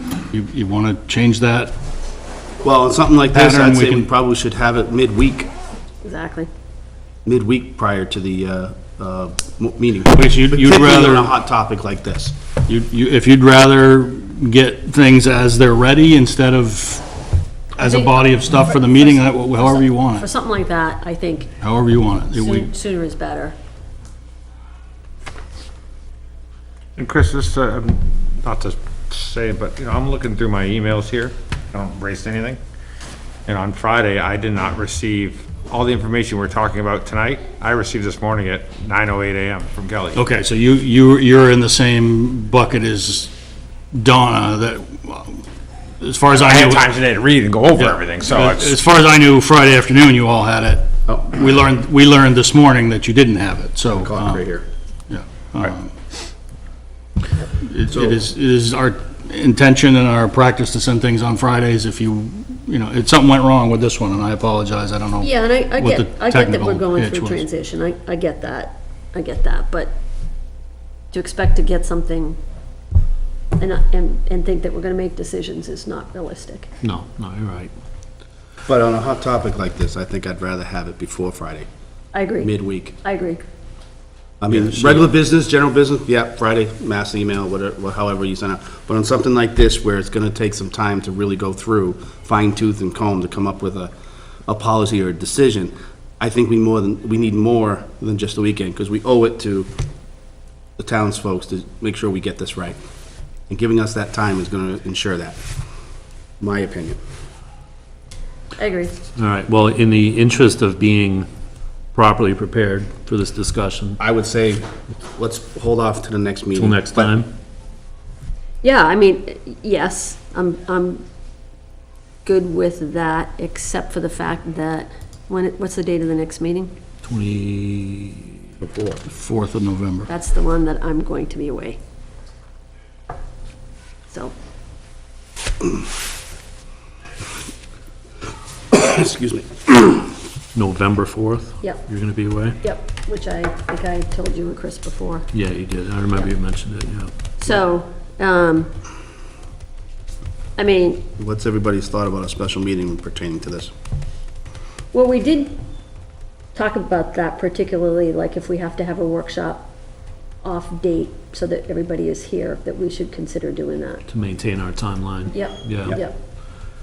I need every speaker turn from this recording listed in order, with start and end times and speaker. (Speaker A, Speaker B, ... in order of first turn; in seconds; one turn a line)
Speaker A: 0.3-1.7
Speaker B: 2.6-5.5
Speaker A: 3.3-4.1
Speaker C: 6.0-6.5
Speaker B: 7.2-12.3
Speaker A: 10.1-11.3
Speaker A: 12.7-17.1
Speaker A: 17.7-20.3
Speaker C: 17.8-21.5
Speaker A: 21.6-22.7
Speaker C: 22.3-23.6
Speaker D: 27.0-32.6
Speaker D: 33.5-40.2
Speaker A: 40.1-43.3
Speaker A: 43.9-45.5
Speaker A: 46.0-46.9
Speaker D: 46.3-48.8
Speaker A: 47.8-54.4
Speaker B: 53.9-54.7
Speaker A: 55.1-56.0
Speaker A: 57.5-67.5
Speaker B: 57.9-58.2
Speaker C: 65.2-69.9
Speaker C: 71.1-72.4
Speaker C: 73.6-76.7
Speaker E: 76.8-77.7
Speaker B: 78.7-81.7
Speaker C: 82.1-82.5
Speaker B: 82.4-83.0
Speaker C: 83.0-83.4
Speaker B: 84.4-93.9
Speaker B: 94.5-99.7
Speaker B: 100.8-102.8
Speaker B: 103.5-105.4
Speaker B: 106.4-107.0
Speaker C: 108.6-109.0
Speaker E: 109.2-111.3
Speaker E: 111.9-114.0
Speaker B: 114.0-117.2
Speaker E: 116.5-117.3
Speaker C: 118.6-121.0
Speaker C: 122.2-126.7
Speaker E: 127.0-128.4
Speaker A: 129.0-130.1
Speaker C: 130.1-131.8
Speaker B: 138.7-139.9
Speaker E: 140.5-142.6
Speaker C: 142.6-145.3
Speaker E: 145.3-147.1
Speaker C: 147.4-148.7
Speaker C: 150.6-151.1
Speaker B: 151.2-153.7
Speaker C: 154.9-155.6
Speaker C: 156.6-159.7
Speaker C: 160.4-164.1
Speaker E: 164.1-166.0
Speaker C: 165.3-166.1